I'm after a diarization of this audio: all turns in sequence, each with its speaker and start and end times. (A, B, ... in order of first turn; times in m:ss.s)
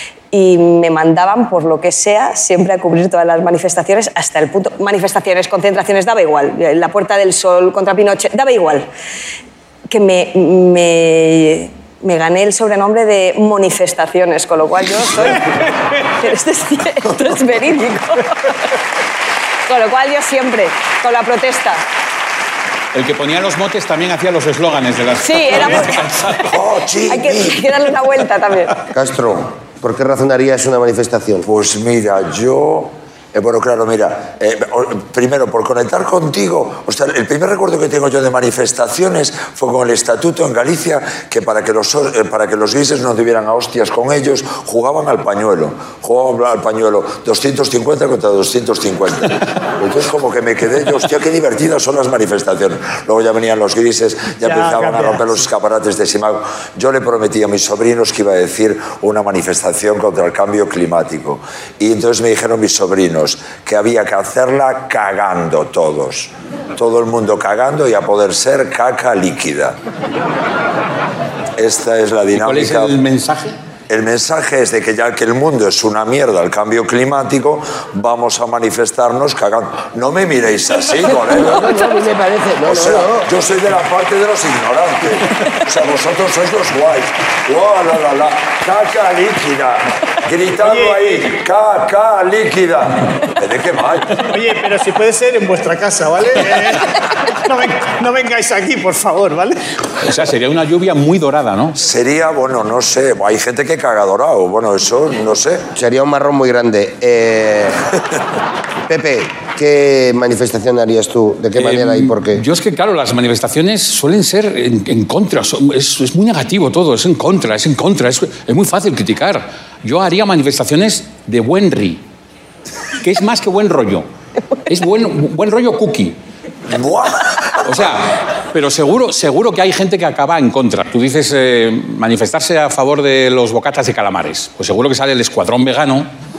0:00.3-0:08.9 A
0:09.9-0:18.8 A
0:19.7-0:21.8 A
0:22.9-0:26.5 B
0:25.2-0:26.0 A
0:26.4-0:27.7 C
0:27.1-0:28.8 A
0:28.9-0:31.5 D
0:31.4-1:09.8 C
0:54.4-0:55.4 E
1:11.6-1:13.0 C
1:12.4-1:13.6 B
1:13.9-1:21.8 C
1:21.3-1:23.3 D
1:22.7-1:34.2 C
1:30.6-1:31.2 E
1:34.2-1:39.6 E
1:40.0-1:41.8 B
1:41.8-1:45.7 C
1:45.8-1:47.8 D
1:48.9-1:52.4 D
1:51.6-2:02.0 B
2:03.0-2:04.1 B
2:04.7-2:06.2 B
2:06.7-2:07.9 C
2:07.6-2:16.1 B